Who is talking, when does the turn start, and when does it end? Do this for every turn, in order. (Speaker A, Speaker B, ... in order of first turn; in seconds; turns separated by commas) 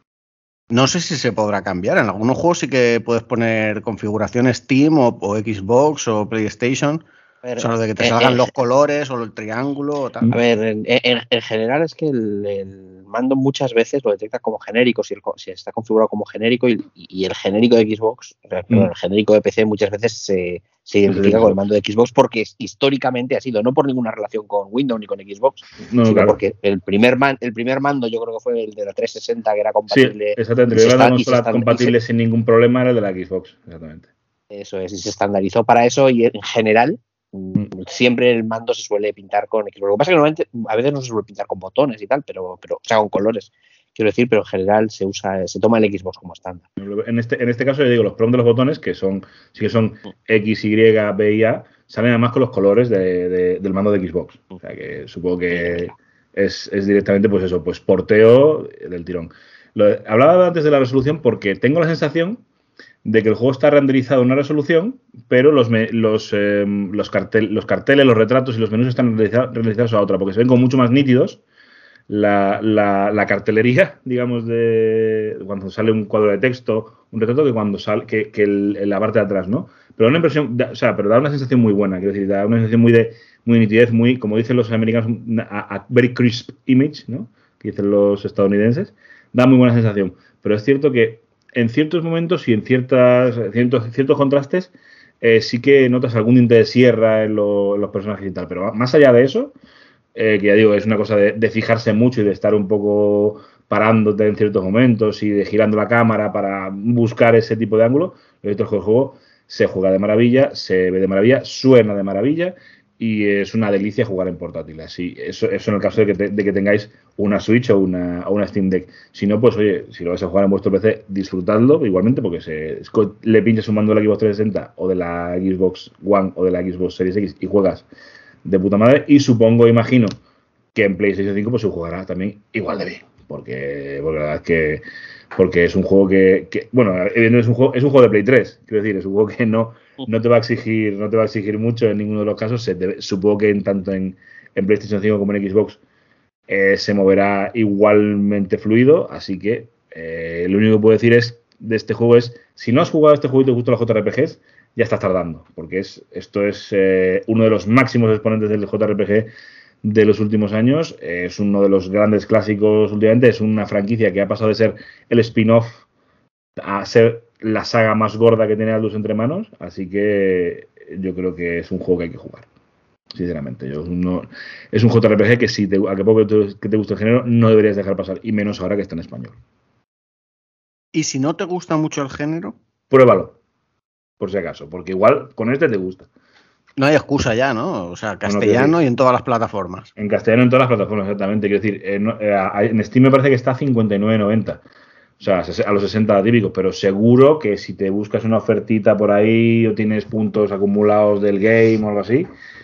Speaker A: 0.7-7.0, Speaker B: 7.4-8.5, Speaker A: 7.6-10.3, Speaker B: 10.3-31.9, Speaker C: 21.1-21.6, Speaker C: 25.9-26.4, Speaker C: 29.9-34.1, Speaker B: 34.5-46.7, Speaker C: 46.8-62.4, Speaker C: 63.0-71.4, Speaker C: 72.1-99.5, Speaker C: 100.2-127.8, Speaker C: 128.4-130.1, Speaker C: 130.8-145.8, Speaker C: 146.5-159.3, Speaker C: 159.8-165.8, Speaker C: 166.6-172.5, Speaker C: 173.1-179.4, Speaker A: 180.9-182.6, Speaker C: 182.9-183.4, Speaker C: 184.2-186.1, Speaker A: 186.8-189.9, Speaker C: 188.2-188.8, Speaker C: 190.0-194.6, Speaker C: 195.2-202.3